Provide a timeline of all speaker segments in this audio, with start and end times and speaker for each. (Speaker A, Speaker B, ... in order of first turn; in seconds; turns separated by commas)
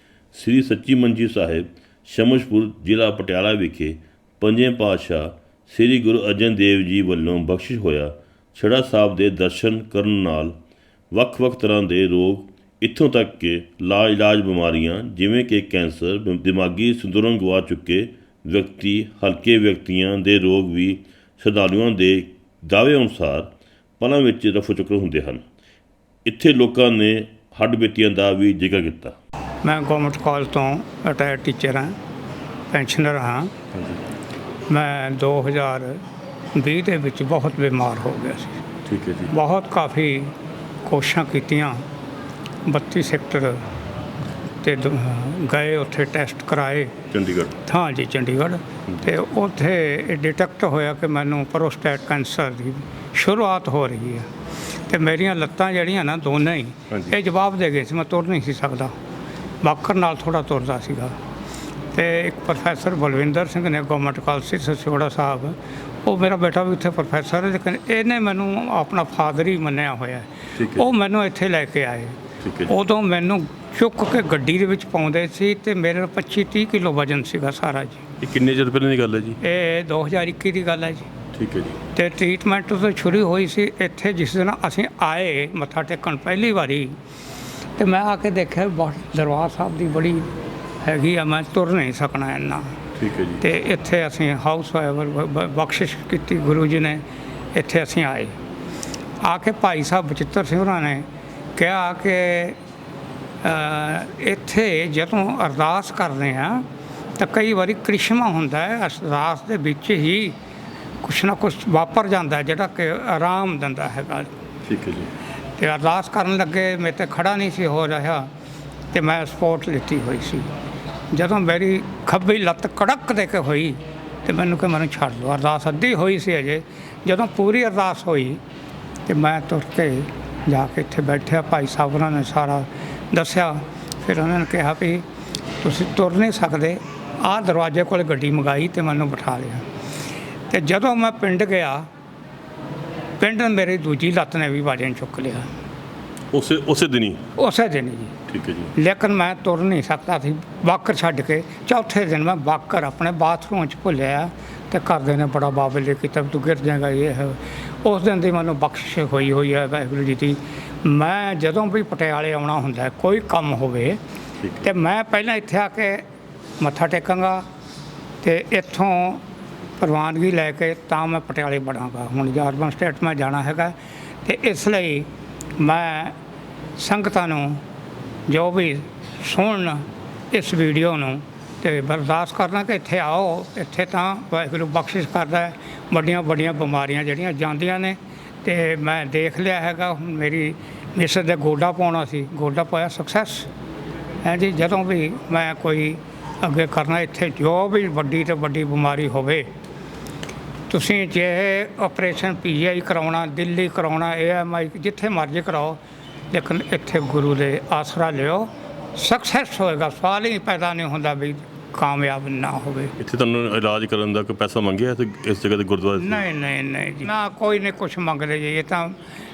Speaker A: 0.3-10.6, Speaker A: 11.1-25.4, Speaker A: 26.2-29.2, Speaker B: 29.6-32.0, Speaker B: 32.7-33.5, Speaker A: 33.7-34.0, Speaker B: 34.7-36.0, Speaker B: 36.5-38.6, Speaker A: 38.9-39.3, Speaker B: 39.3-40.3, Speaker B: 40.9-41.8, Speaker B: 42.7-43.6, Speaker B: 44.6-47.0, Speaker A: 47.1-47.6, Speaker B: 47.7-54.3, Speaker B: 54.9-59.0, Speaker B: 59.6-61.2, Speaker B: 61.9-72.2, Speaker A: 70.6-70.9, Speaker A: 72.4-72.7, Speaker B: 72.7-78.0, Speaker A: 78.2-79.4, Speaker B: 79.4-81.1, Speaker A: 81.3-81.8, Speaker B: 82.0-87.0, Speaker B: 87.8-90.3, Speaker B: 90.8-92.8, Speaker A: 93.0-93.4, Speaker B: 93.4-98.4, Speaker B: 99.2-102.6, Speaker B: 103.4-106.7, Speaker B: 107.2-110.4, Speaker B: 111.0-114.3, Speaker A: 114.7-115.1, Speaker B: 115.6-118.3, Speaker B: 118.9-120.5, Speaker B: 121.1-128.4, Speaker B: 129.1-135.1, Speaker B: 135.6-139.7, Speaker B: 140.5-141.9, Speaker B: 143.2-145.5, Speaker A: 146.3-147.2, Speaker B: 147.4-148.1, Speaker A: 148.3-148.7, Speaker B: 148.8-164.0, Speaker A: 164.4-164.7, Speaker B: 164.6-166.1, Speaker B: 166.6-167.5, Speaker B: 168.2-169.2, Speaker B: 169.8-176.2, Speaker B: 176.8-177.6, Speaker B: 178.3-193.5, Speaker B: 194.2-199.5, Speaker B: 200.7-205.8, Speaker B: 206.3-212.9, Speaker A: 213.0-216.2, Speaker B: 216.0-219.0